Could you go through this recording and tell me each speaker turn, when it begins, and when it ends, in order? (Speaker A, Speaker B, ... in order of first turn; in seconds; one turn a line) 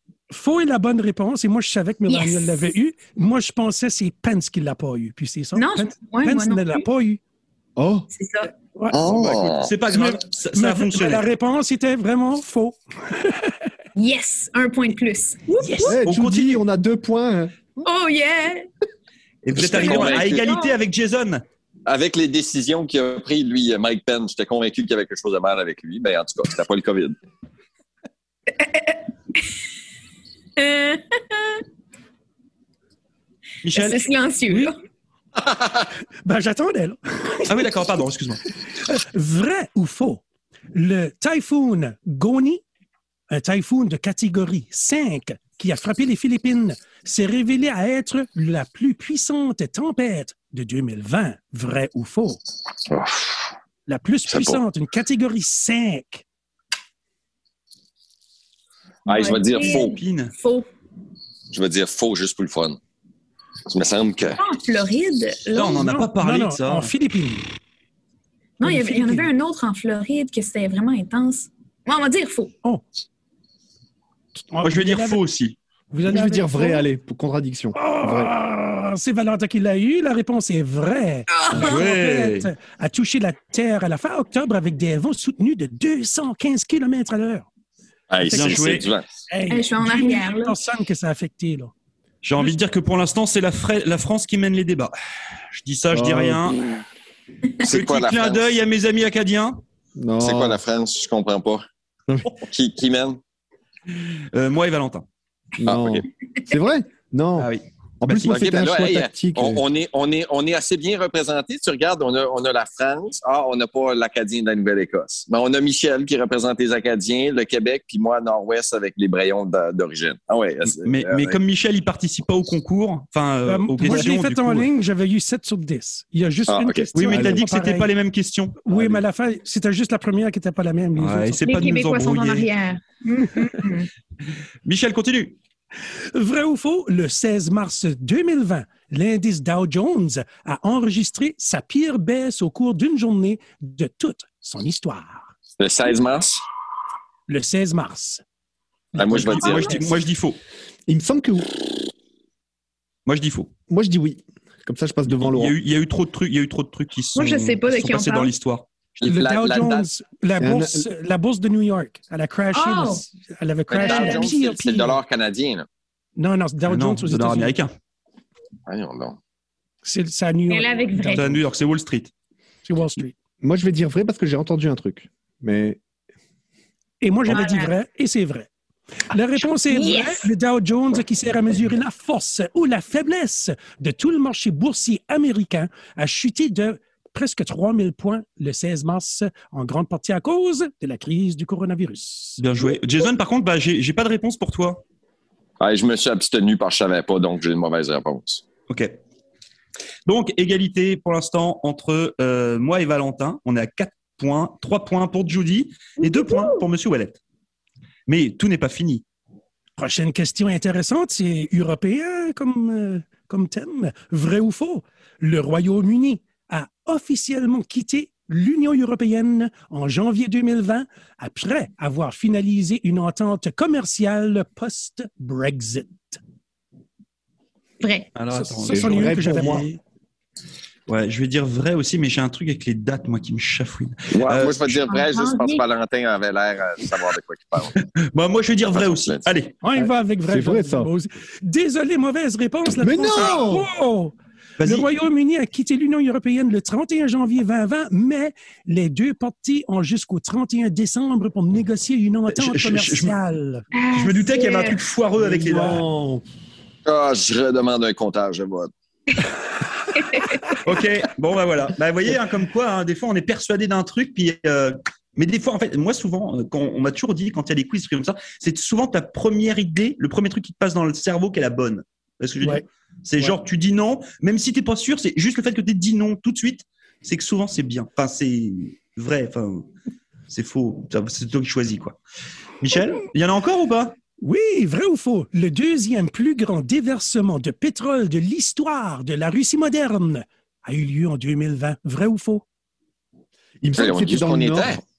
Speaker A: 0.3-7.2
Speaker B: 2.1-2.7
Speaker B: 5.5-6.9
Speaker C: 7.8-8.1
Speaker B: 8.1-8.5
Speaker D: 8.9-9.7
Speaker E: 9.2-11.2
Speaker A: 9.9-13.5
Speaker B: 13.9-16.0
Speaker A: 15.6-15.9
Speaker C: 15.8-17.5
Speaker E: 16.0-16.6
Speaker B: 17.8-18.6
Speaker E: 19.4-21.4
Speaker D: 19.6-20.4
Speaker B: 19.8-20.8
Speaker D: 21.9-27.1
Speaker B: 28.5-29.5
Speaker B: 30.6-31.6
Speaker E: 33.6-34.0
Speaker B: 33.7-34.7
Speaker D: 35.4-35.7
Speaker A: 36.2-37.6
Speaker E: 37.5-38.4
Speaker A: 38.8-42.6
Speaker A: 43.3-52.4
Speaker D: 52.9-53.5
Speaker A: 53.9-56.2
Speaker D: 54.3-54.6
Speaker B: 59.0-60.7
Speaker D: 59.1-60.0
Speaker E: 59.6-60.3
Speaker D: 61.5-62.8
Speaker D: 63.7-64.4
Speaker B: 64.4-66.0
Speaker E: 65.5-66.9
Speaker A: 65.8-67.5
Speaker B: 68.6-72.5
Speaker A: 68.6-69.3
Speaker A: 74.5-75.2
Speaker E: 74.6-75.6
Speaker A: 75.9-76.9
Speaker C: 76.1-78.3
Speaker A: 77.7-87.5
Speaker B: 81.3-81.9
Speaker E: 81.5-82.5
Speaker D: 88.1-89.0
Speaker A: 88.2-88.8
Speaker E: 88.2-88.9
Speaker A: 89.3-91.7
Speaker B: 89.5-90.6
Speaker E: 92.2-94.9
Speaker E: 95.5-96.6
Speaker C: 95.9-96.6
Speaker D: 97.6-98.5
Speaker E: 97.6-99.6
Speaker C: 100.0-100.6
Speaker D: 100.2-101.6
Speaker D: 102.5-103.2
Speaker E: 104.3-105.0
Speaker C: 105.6-107.5
Speaker D: 105.6-106.0
Speaker E: 107.4-108.3
Speaker C: 108.0-109.6
Speaker D: 108.3-121.4
Speaker E: 120.7-124.7
Speaker A: 123.5-127.9
Speaker C: 123.8-124.1
Speaker D: 126.5-126.8
Speaker E: 126.9-128.6
Speaker C: 127.1-127.5
Speaker A: 128.6-131.5
Speaker C: 128.7-129.0
Speaker E: 130.9-132.5
Speaker B: 131.4-133.9
Speaker E: 134.6-135.3
Speaker A: 136.1-145.3
Speaker D: 145.6-146.4
Speaker A: 147.3-148.2
Speaker D: 148.9-149.9
Speaker E: 149.0-150.4
Speaker B: 149.4-149.8
Speaker C: 150.9-151.7
Speaker E: 153.1-153.5
Speaker C: 153.7-155.6
Speaker E: 155.1-158.7
Speaker B: 157.1-158.3
Speaker D: 159.0-159.9
Speaker A: 159.0-165.0
Speaker C: 160.4-160.9
Speaker B: 162.5-163.0
Speaker D: 163.7-165.7
Speaker B: 163.8-164.2
Speaker A: 166.2-167.6
Speaker E: 166.6-167.7
Speaker D: 168.7-169.2
Speaker A: 169.8-171.3
Speaker B: 170.5-171.3
Speaker E: 171.1-172.1
Speaker A: 172.6-173.1
Speaker C: 173.4-175.8
Speaker A: 177.0-178.5
Speaker B: 177.3-177.7
Speaker A: 179.1-192.4
Speaker B: 179.6-180.3
Speaker E: 192.4-194.8
Speaker D: 195.6-198.4
Speaker E: 200.1-207.2
Speaker B: 206.0-206.6
Speaker E: 208.1-209.0
Speaker A: 209.8-226.2
Speaker B: 227.8-228.1
Speaker E: 228.1-229.6
Speaker A: 228.3-229.8
Speaker C: 228.7-229.7
Speaker E: 230.9-234.8
Speaker D: 234.1-237.7
Speaker B: 234.7-235.6
Speaker E: 237.8-239.6
Speaker D: 238.7-239.2
Speaker A: 239.6-253.6
Speaker C: 239.8-240.9
Speaker C: 242.8-243.7
Speaker E: 244.6-244.9
Speaker E: 252.3-253.2
Speaker B: 253.7-254.8
Speaker E: 253.9-255.8
Speaker C: 255.2-256.2
Speaker D: 256.9-258.7
Speaker B: 259.9-260.3
Speaker E: 260.6-279.7
Speaker E: 280.3-282.0
Speaker E: 282.6-283.9
Speaker A: 284.2-292.4
Speaker C: 293.6-294.8
Speaker D: 293.8-294.8